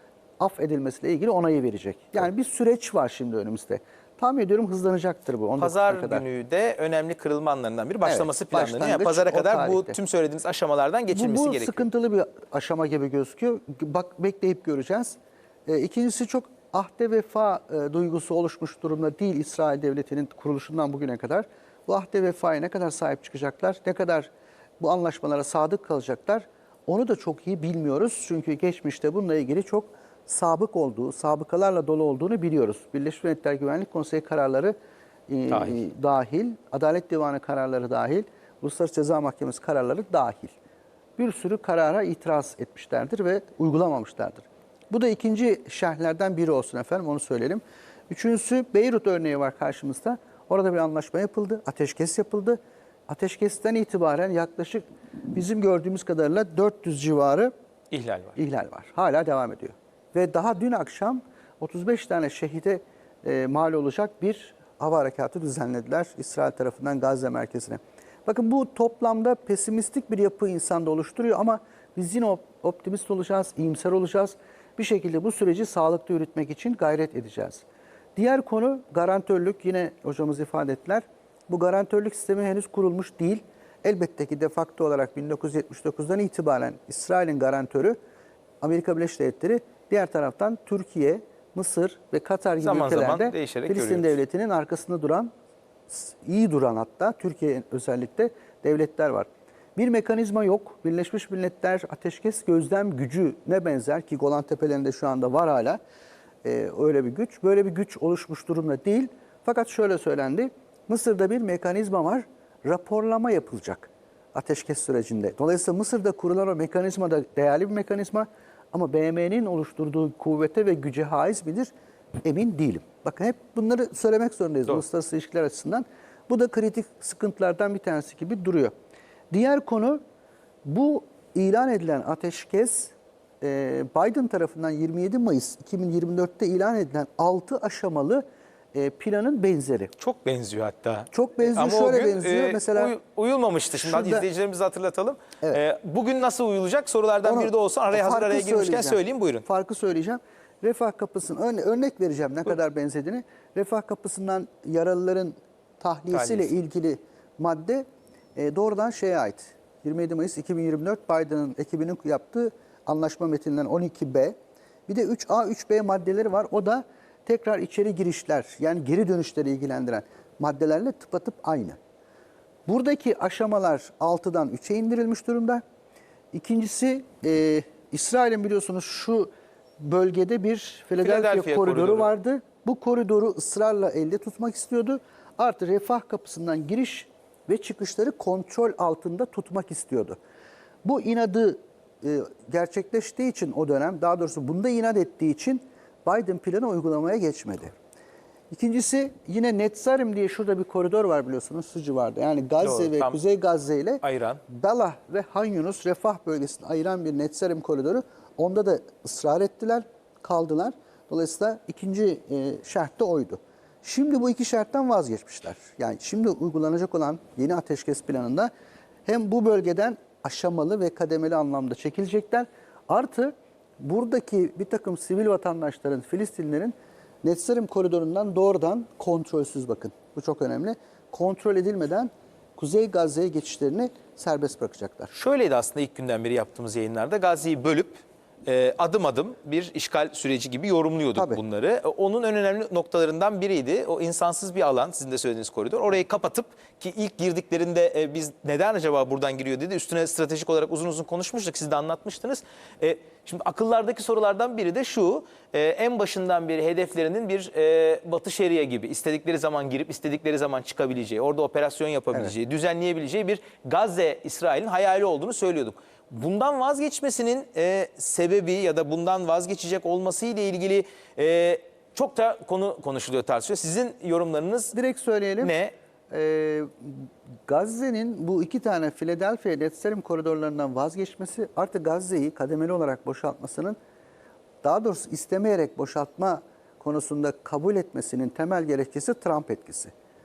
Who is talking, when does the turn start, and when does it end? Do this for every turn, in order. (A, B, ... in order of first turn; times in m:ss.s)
0:00.4-0:06.2 A
0:05.6-0:11.9 B
0:08.0-0:10.0 A
0:11.1-0:34.8 A
0:35.3-0:40.5 A
0:35.5-0:35.8 B
0:41.2-0:57.5 A
0:57.9-0:58.4 B
0:58.4-1:17.6 A
1:18.2-1:28.0 A
1:28.6-1:35.3 A
1:32.6-1:34.2 B
1:35.9-1:45.8 A
1:46.4-2:01.7 A
2:02.2-2:08.7 A
2:09.3-2:10.0 A
2:10.6-2:19.9 A
2:20.0-2:29.4 B
2:21.1-2:22.9 A
2:23.7-2:24.3 A
2:27.2-2:44.4 A
2:36.1-2:36.5 B
2:44.9-2:51.8 A
2:52.6-2:55.6 A
2:56.3-3:10.2 A
3:01.0-3:02.1 B
3:10.8-3:17.7 A
3:18.5-3:38.5 A
3:22.6-3:23.2 B
3:24.0-3:24.4 B
3:39.0-3:55.1 A
3:55.1-4:34.7 B
4:01.2-4:01.4 A
4:34.7-4:35.5 A
4:35.4-4:35.7 B
4:36.1-4:43.8 A
4:44.6-4:49.9 A